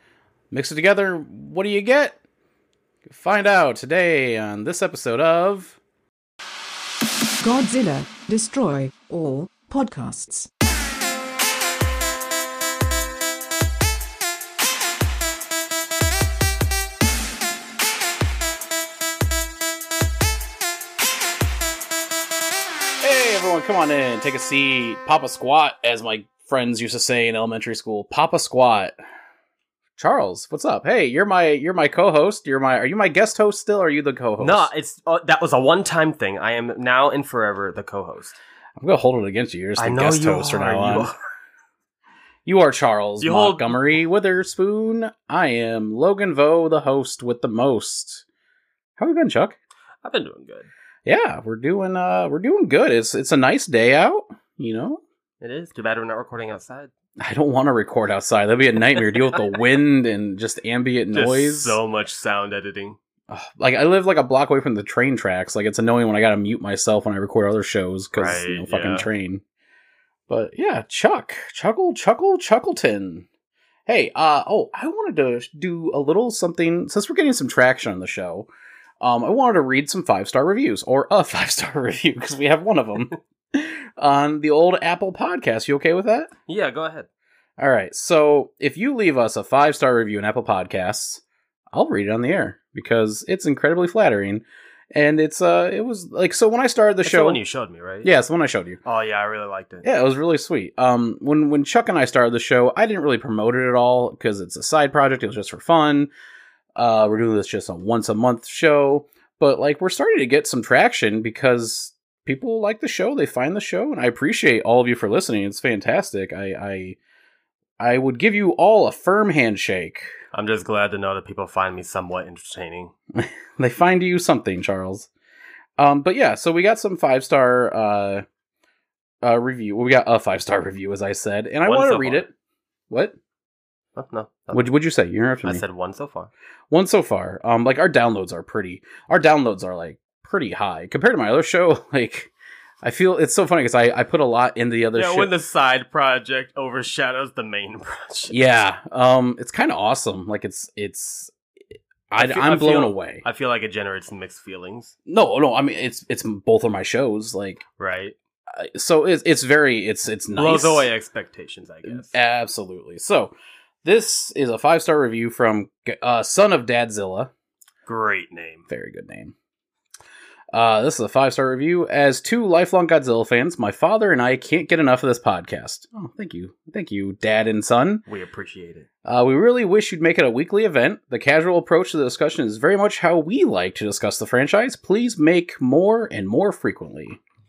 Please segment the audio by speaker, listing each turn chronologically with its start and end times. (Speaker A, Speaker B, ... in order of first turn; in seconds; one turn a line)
Speaker A: 0.5-2.2
Speaker A: 3.1-5.8
Speaker B: 7.4-10.5
Speaker A: 23.0-28.9
Speaker A: 30.0-34.7
Speaker C: 34.4-38.4
Speaker A: 38.8-41.1
Speaker C: 39.8-41.2
Speaker A: 42.5-48.2
Speaker C: 43.2-43.9
Speaker A: 49.0-49.6
Speaker C: 50.0-50.7
Speaker A: 51.1-55.0
Speaker C: 55.4-56.9
Speaker A: 57.2-61.8
Speaker C: 61.1-63.0
Speaker A: 63.3-69.4
Speaker C: 68.2-69.1
Speaker A: 70.3-73.3
Speaker A: 73.9-78.5
Speaker A: 79.0-86.3
Speaker C: 86.5-87.1
Speaker A: 87.6-91.2
Speaker A: 91.7-97.4
Speaker C: 97.0-98.1
Speaker A: 98.0-98.8
Speaker C: 98.8-99.8
Speaker A: 99.8-106.1
Speaker A: 106.8-117.0
Speaker A: 117.8-120.1
Speaker C: 120.3-122.9
Speaker A: 123.2-125.1
Speaker A: 125.8-128.2
Speaker A: 129.2-132.3
Speaker C: 131.7-132.3
Speaker C: 134.0-134.7
Speaker A: 134.5-135.6
Speaker C: 135.4-136.3
Speaker A: 136.7-142.3
Speaker A: 142.8-145.3
Speaker C: 144.9-148.4
Speaker A: 148.3-151.3
Speaker A: 152.1-153.2
Speaker C: 152.2-154.9
Speaker A: 155.1-157.6
Speaker C: 157.8-158.2
Speaker A: 158.5-160.9
Speaker C: 160.3-162.1
Speaker A: 161.9-163.3
Speaker A: 163.8-167.3
Speaker C: 167.9-168.7
Speaker A: 168.7-169.3
Speaker A: 170.5-178.1
Speaker C: 178.1-178.9
Speaker A: 179.1-187.2